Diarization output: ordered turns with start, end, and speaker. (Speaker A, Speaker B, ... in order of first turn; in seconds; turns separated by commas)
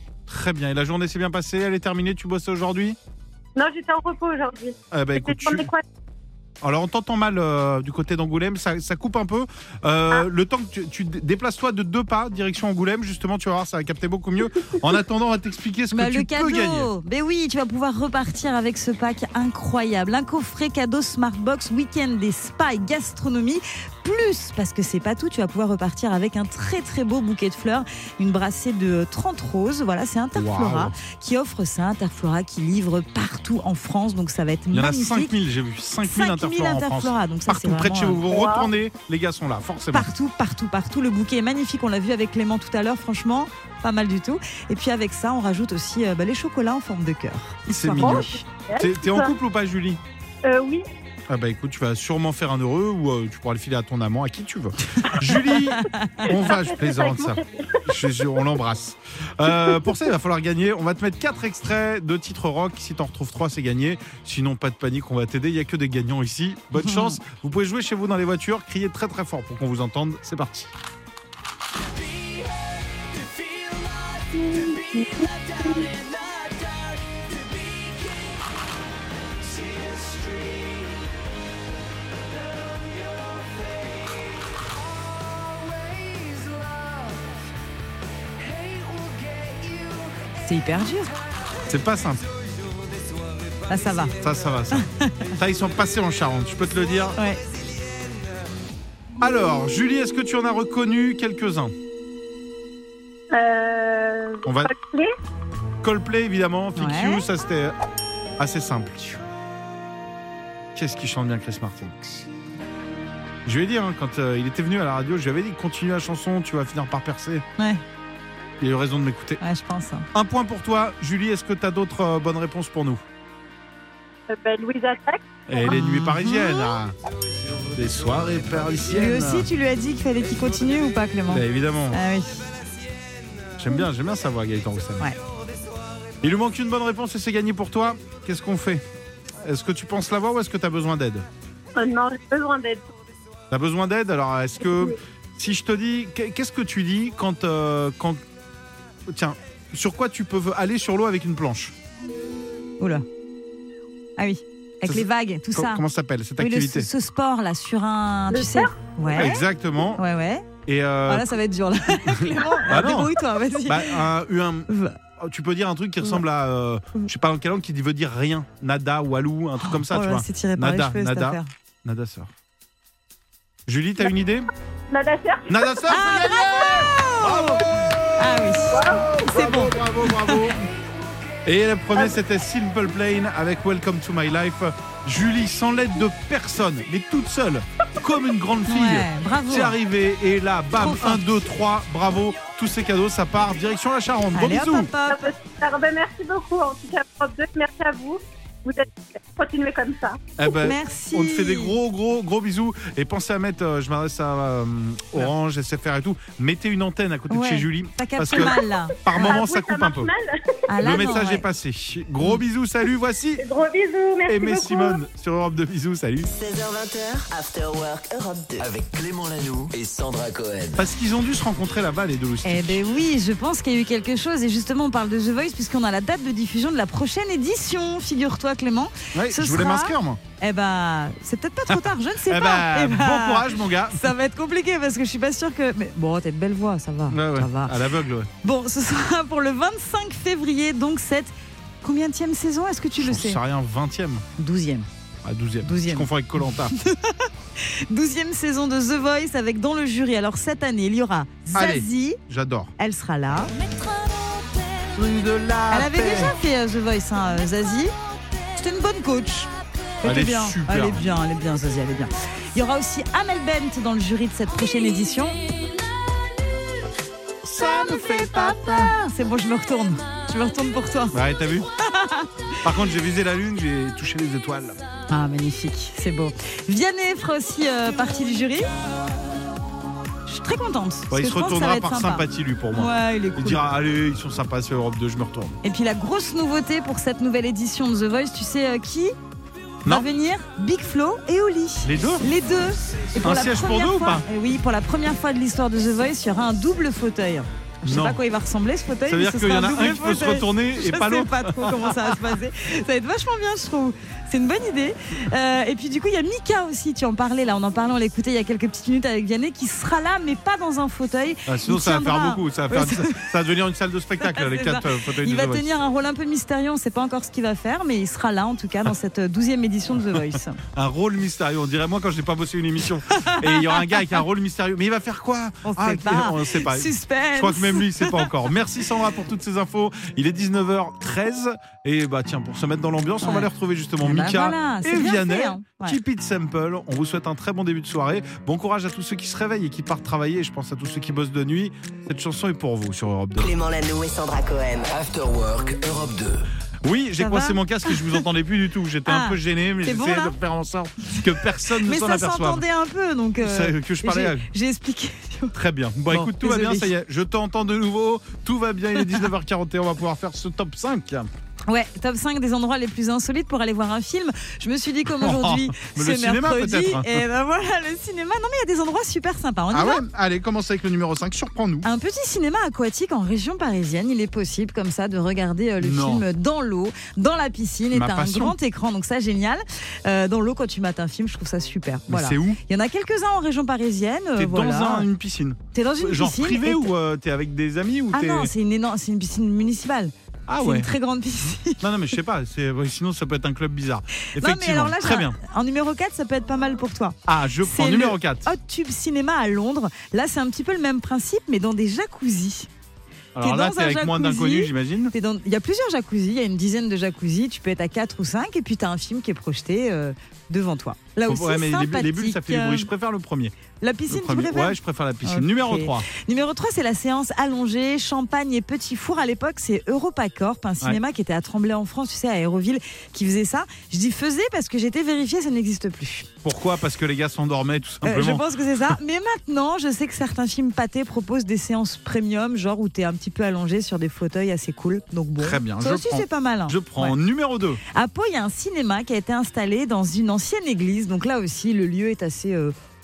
Speaker A: 0.3-3.0, Speaker B: 3.5-5.8, Speaker A: 4.9-5.7, Speaker A: 6.6-16.9, Speaker C: 15.9-35.3, Speaker A: 30.3-30.9, Speaker A: 34.7-40.1, Speaker C: 36.0-38.2, Speaker B: 38.4-38.7, Speaker C: 39.9-48.4, Speaker A: 47.7-50.0, Speaker B: 48.0-49.3, Speaker B: 50.4-50.8, Speaker A: 51.3-70.7, Speaker B: 56.5-57.8, Speaker C: 66.8-67.2, Speaker C: 90.4-91.1, Speaker A: 91.7-92.2, Speaker C: 93.7-94.1, Speaker A: 94.2-97.2, Speaker C: 94.7-95.3, Speaker A: 99.2-101.7, Speaker B: 103.3-105.1, Speaker A: 104.5-104.7, Speaker A: 105.8-107.7, Speaker C: 106.8-107.2, Speaker A: 108.4-109.2, Speaker A: 110.7-112.2, Speaker A: 113.5-117.4, Speaker A: 118.6-119.4, Speaker C: 119.4-120.0, Speaker A: 120.1-123.0, Speaker B: 124.3-125.2, Speaker A: 125.5-126.9, Speaker C: 125.6-126.7, Speaker A: 127.7-129.5, Speaker C: 128.9-132.4, Speaker A: 131.3-132.0, Speaker A: 133.6-135.1, Speaker A: 136.2-138.8, Speaker A: 139.4-141.2, Speaker B: 141.8-142.8, Speaker A: 143.5-148.2, Speaker A: 149.1-151.7, Speaker C: 154.2-155.8, Speaker A: 154.8-156.9, Speaker C: 156.4-159.4, Speaker B: 158.3-158.6, Speaker A: 159.1-160.0, Speaker C: 159.9-160.4, Speaker A: 160.7-161.3, Speaker C: 161.1-164.0, Speaker A: 162.7-172.3, Speaker C: 164.7-165.0, Speaker C: 169.6-171.5, Speaker A: 173.7-174.5, Speaker B: 174.9-175.5, Speaker A: 175.5-180.6, Speaker C: 175.9-177.6, Speaker C: 178.2-180.5, Speaker B: 178.8-179.1, Speaker A: 181.4-194.9, Speaker C: 188.7-189.8, Speaker C: 190.8-191.2, Speaker C: 194.3-195.3, Speaker B: 195.1-200.2, Speaker A: 200.4-210.1, Speaker C: 200.5-201.8, Speaker C: 207.3-209.4, Speaker B: 209.2-210.2, Speaker C: 210.7-211.4, Speaker A: 210.8-213.4, Speaker B: 213.4-214.9, Speaker A: 214.3-216.3, Speaker D: 216.3-218.7, Speaker E: 218.6-220.8, Speaker A: 220.8-222.8, Speaker C: 222.4-237.7, Speaker A: 229.1-230.2, Speaker A: 231.7-234.1, Speaker A: 237.1-238.3, Speaker C: 238.4-243.4, Speaker A: 243.0-244.2, Speaker C: 244.4-244.9, Speaker A: 245.2-246.7, Speaker C: 245.6-252.2, Speaker A: 251.5-252.7, Speaker C: 252.8-253.5, Speaker A: 254.9-256.3, Speaker C: 255.7-257.9, Speaker C: 258.5-265.4, Speaker A: 260.0-261.1, Speaker A: 267.4-268.9, Speaker C: 267.6-271.1, Speaker A: 271.1-271.7, Speaker C: 271.9-272.3, Speaker A: 272.6-274.8, Speaker C: 275.1-278.7, Speaker C: 280.2-283.6, Speaker A: 281.1-285.6, Speaker C: 285.6-289.1, Speaker C: 289.9-313.2, Speaker A: 291.8-292.3, Speaker A: 293.2-294.2, Speaker A: 297.8-298.2, Speaker A: 299.1-302.2, Speaker A: 311.4-315.7, Speaker C: 314.2-320.6, Speaker A: 320.1-343.5, Speaker C: 323.1-324.2, Speaker C: 325.6-328.3, Speaker C: 333.2-333.5, Speaker C: 334.0-336.0, Speaker D: 343.4-344.9, Speaker E: 344.9-346.5, Speaker A: 346.8-352.6, Speaker C: 347.2-348.2, Speaker C: 349.1-350.4, Speaker C: 351.8-355.6, Speaker A: 353.4-354.4, Speaker A: 355.5-361.3, Speaker C: 356.1-356.9, Speaker C: 359.0-359.2, Speaker C: 361.7-370.0, Speaker A: 365.1-367.2, Speaker A: 369.7-371.9, Speaker C: 371.8-385.1, Speaker A: 375.8-376.2, Speaker A: 377.9-378.6, Speaker A: 382.1-382.6, Speaker A: 384.4-388.5, Speaker C: 385.7-386.9, Speaker C: 388.1-391.8, Speaker A: 390.5-390.9, Speaker A: 391.8-395.4, Speaker C: 394.4-402.7, Speaker A: 397.3-398.5, Speaker A: 403.3-405.1, Speaker C: 403.4-412.9, Speaker A: 411.2-413.5, Speaker C: 413.8-426.3, Speaker A: 414.1-416.1, Speaker A: 426.4-428.9, Speaker C: 428.0-437.1, Speaker A: 435.4-437.8, Speaker C: 437.9-442.7